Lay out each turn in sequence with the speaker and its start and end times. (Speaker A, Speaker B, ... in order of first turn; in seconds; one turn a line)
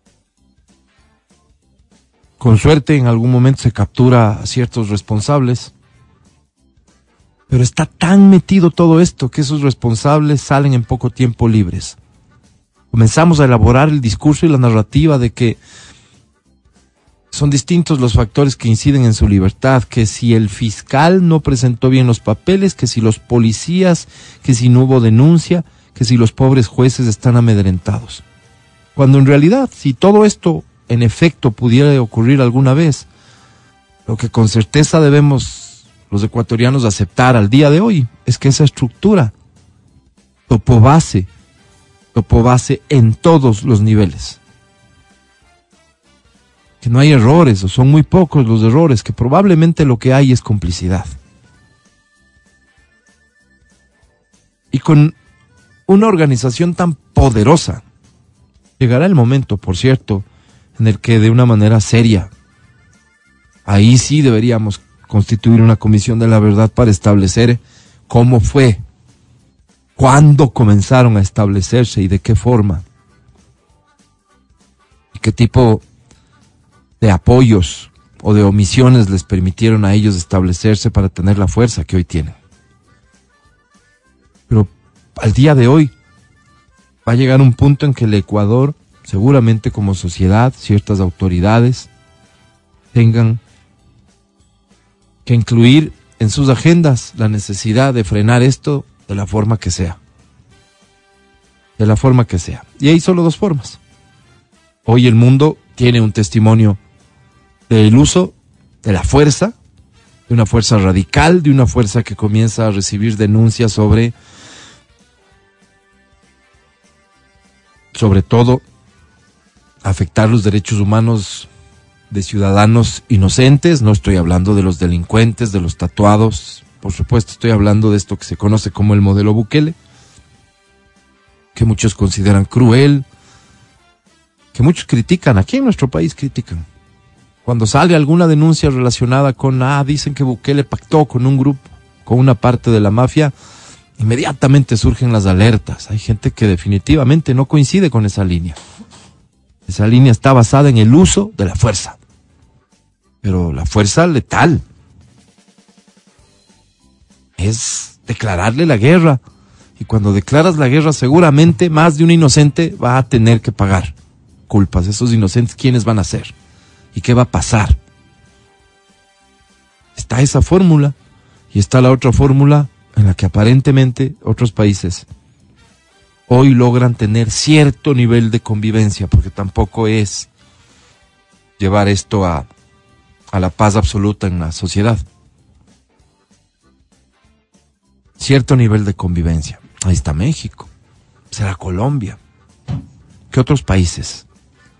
Speaker A: 2.4-5.7
Speaker A: 7.5-12.0
Speaker A: 12.9-15.6
Speaker A: 17.3-28.2
Speaker A: 28.9-33.1
Speaker A: 34.1-39.3
Speaker A: 40.5-41.3
Speaker A: 42.1-44.4
Speaker A: 46.8-51.1
Speaker A: 54.7-55.1
Speaker A: 55.9-57.8
Speaker A: 58.8-60.2
Speaker A: 60.8-62.3
Speaker A: 63.7-68.8
Speaker A: 70.0-72.8
Speaker A: 75.1-75.8
Speaker A: 77.0-82.3
Speaker A: 84.5-85.9
Speaker A: 87.0-91.9
Speaker A: 92.9-93.4
Speaker A: 95.2-100.0
Speaker A: 101.8-103.8
Speaker A: 104.8-106.8
Speaker A: 107.7-109.6
Speaker A: 110.3-114.1
Speaker A: 117.9-118.6
Speaker A: 119.8-121.5
Speaker A: 122.1-129.8
Speaker A: 131.5-133.1
Speaker A: 134.5-136.6
Speaker A: 137.4-143.3
Speaker A: 144.0-148.6
Speaker A: 149.7-152.0
Speaker A: 153.2-154.6
Speaker A: 157.4-159.2
Speaker A: 159.8-163.9
Speaker A: 164.5-166.3
Speaker A: 166.9-167.8
Speaker A: 170.0-170.9
Speaker A: 171.5-175.1
Speaker A: 176.3-180.3
Speaker A: 181.6-182.5
Speaker A: 183.3-185.0
Speaker A: 188.2-190.7
Speaker A: 191.3-192.2
Speaker A: 193.3-194.2